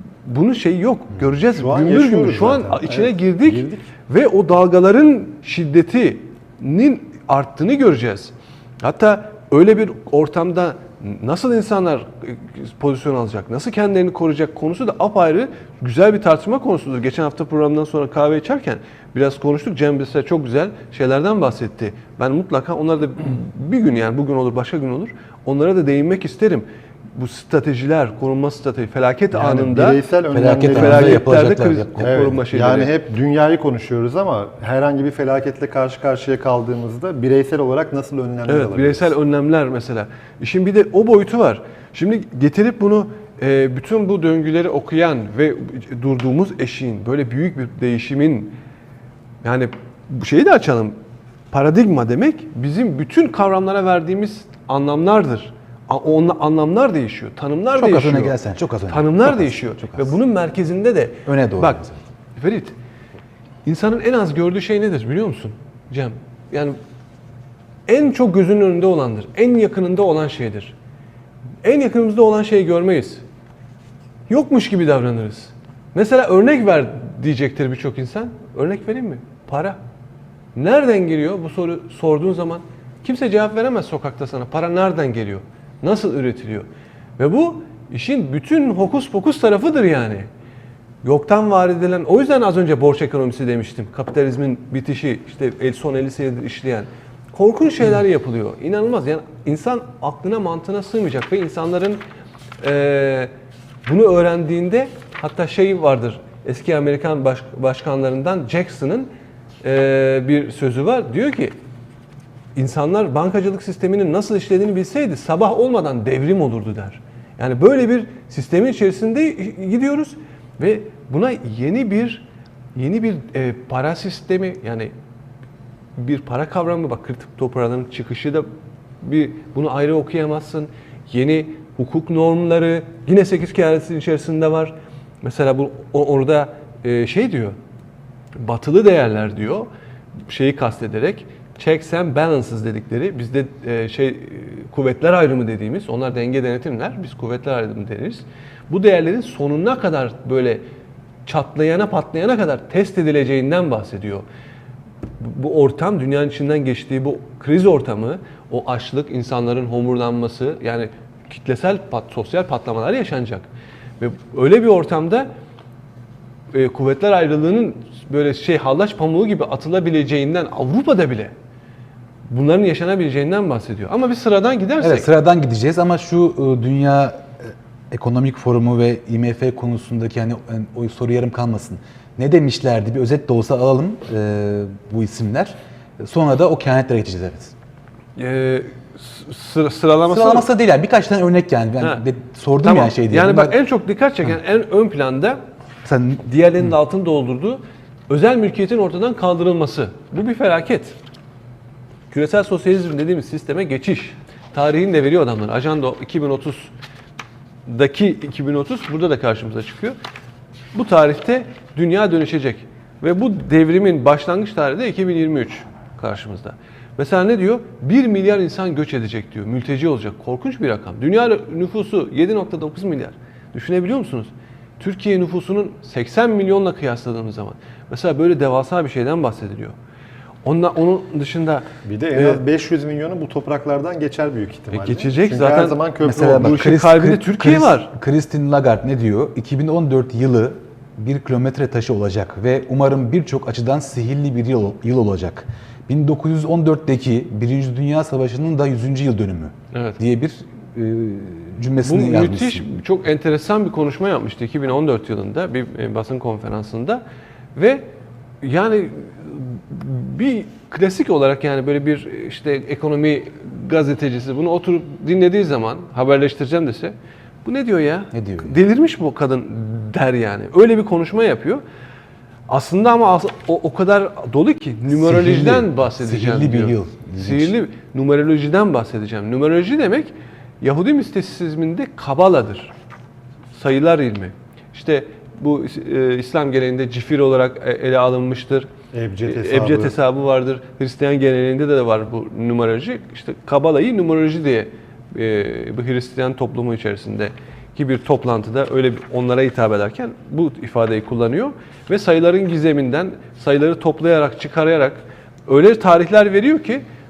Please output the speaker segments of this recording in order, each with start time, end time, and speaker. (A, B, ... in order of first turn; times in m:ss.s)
0:00.2-0:30.0 A
0:01.5-0:03.9 B
0:29.3-0:31.3 B
0:30.3-0:32.1 C
0:30.7-0:32.9 A
0:32.0-0:39.1 B
0:38.5-0:48.5 A
0:49.4-0:51.0 A
0:51.5-1:01.8 A
0:57.8-1:00.1 C
1:01.2-1:02.0 C
1:02.4-1:02.7 A
1:03.6-1:06.8 A
1:07.9-1:10.7 A
1:11.6-1:13.2 A
1:14.3-1:19.8 A
1:20.5-1:26.7 A
1:27.2-1:30.3 A
1:31.0-1:42.0 A
1:42.6-1:43.3 A
1:43.8-1:49.1 A
1:49.6-1:51.5 A
1:52.6-2:04.9 A
2:06.0-2:08.4 A
2:09.0-2:17.5 A
2:18.4-2:19.7 A
2:20.2-2:30.6 A
2:31.2-2:34.2 A
2:35.2-2:43.5 A
2:44.0-2:45.3 A
2:46.5-2:51.3 A
2:52.3-2:55.1 A
2:54.8-3:07.5 C
3:08.2-3:10.5 A
3:10.1-3:13.5 C
3:12.6-3:15.4 A
3:15.8-3:16.2 C
3:16.2-3:21.0 A
3:22.1-3:26.7 A
3:27.6-3:30.0 A
3:30.7-3:49.7 A
3:50.4-3:52.4 A
3:51.8-3:56.5 B
3:54.7-3:57.9 A
3:56.0-4:12.6 C
4:09.7-4:10.0 A
4:11.8-4:17.0 A
4:17.5-4:17.8 A
4:18.4-4:31.6 A
4:28.1-4:28.6 C
4:32.5-4:42.7 A
4:34.9-4:37.5 C
4:43.5-4:48.7 A
4:48.9-4:50.0 B
4:49.2-5:06.8 A